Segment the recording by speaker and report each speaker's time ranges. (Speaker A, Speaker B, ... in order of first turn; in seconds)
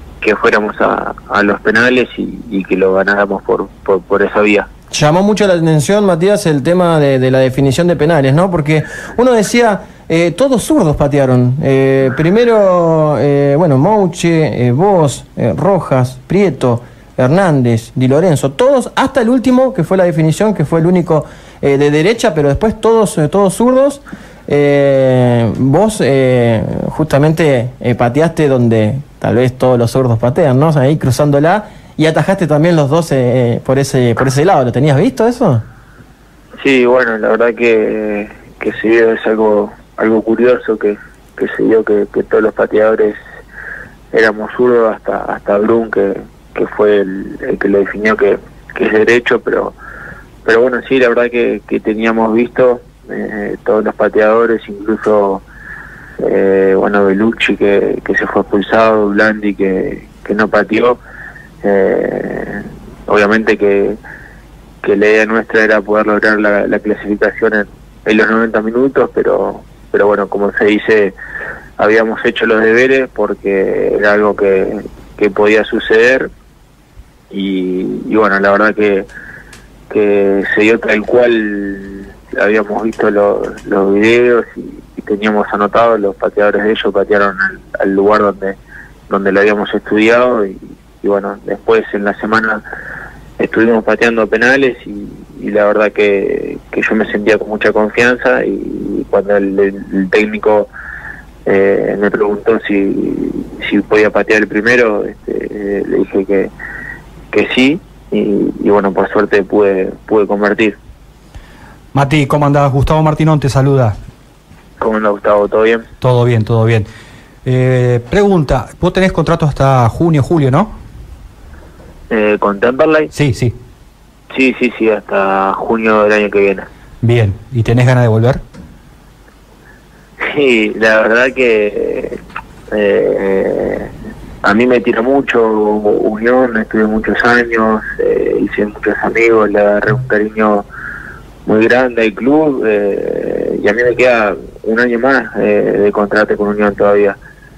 Speaker A: 0.2-4.7, 36.6-43.2, 44.1-49.8, 50.4-55.4, 56.2-61.0, 61.6-64.0, 64.8-71.1, 71.8-76.3, 77.3-79.1, 79.9-88.6, 89.1-92.6, 93.4-100.7, 101.5-106.5, 107.3-110.8, 114.8-115.8, 122.1-123.1, 124.3-126.7, 130.2-132.2, 132.7-133.9, 134.4-140.7, 141.4-147.2
Speaker B: 4.9-35.6
Speaker C: 111.9-114.0, 116.0-116.8, 117.4-120.7, 123.1-123.5, 127.0-128.4